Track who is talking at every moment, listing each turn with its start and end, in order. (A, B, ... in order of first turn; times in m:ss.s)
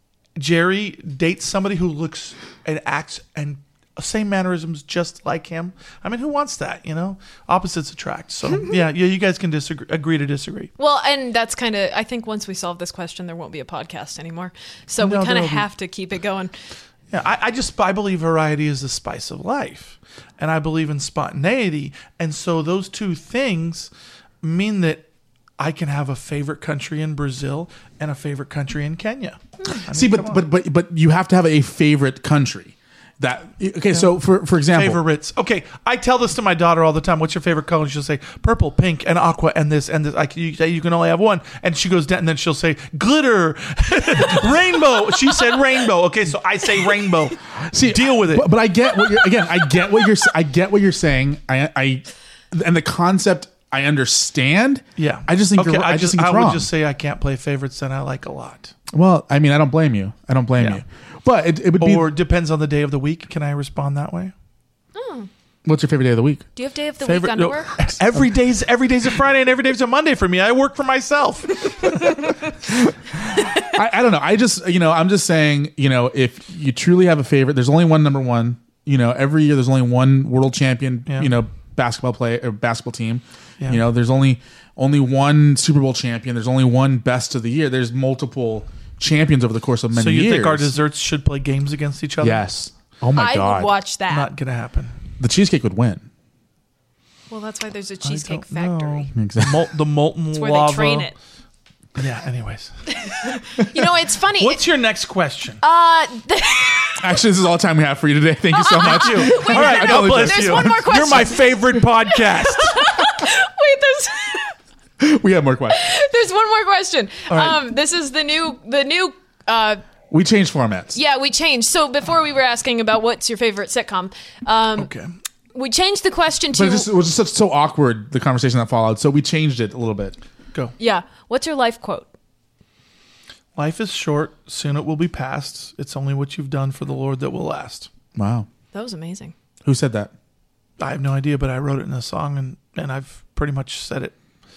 0:00.4-0:10.7 A
0:10.8-0:16.6 B
0:15.0-0:15.7 A
0:17.1-0:23.9 A
0:24.4-0:25.0 A
0:25.6-0:30.4 A
0:29.9-0:35.0 C
0:34.6-0:48.5 A
0:47.6-0:56.7 C
0:55.0-0:58.7 A
0:58.9-1:02.1 C
1:01.8-1:04.3 A
1:04.9-1:05.3 B
1:05.6-1:06.4 C
1:06.6-1:07.7 B
1:07.0-1:12.3 A
1:13.4-1:30.7 C
1:29.9-1:32.4 A
1:32.2-1:33.7 C
1:33.2-1:34.3 B
1:34.1-1:35.0 A
1:35.2-1:36.1 C
1:37.3-1:39.1 B
1:38.0-1:41.1 A
1:39.2-1:39.6 C
1:40.3-1:41.1 B
1:42.0-1:42.7 A
1:43.6-1:44.6 B
1:44.4-1:45.6 A
1:45.6-1:47.0 B
1:47.0-1:51.2 C
1:48.6-1:54.5 B
1:48.8-1:52.8 A
1:55.0-1:55.8 C
1:55.7-1:59.8 B
1:57.3-1:57.6 A
2:00.1-2:01.0 C
2:00.9-2:04.9 B
2:04.8-2:05.1 A
2:05.5-2:06.9 B
2:06.5-2:10.2 C
2:10.8-2:12.1 B
2:13.6-2:17.9 A
2:18.1-2:18.5 C
2:18.7-2:19.3 B
2:19.6-2:20.1 C
2:20.8-2:24.1 A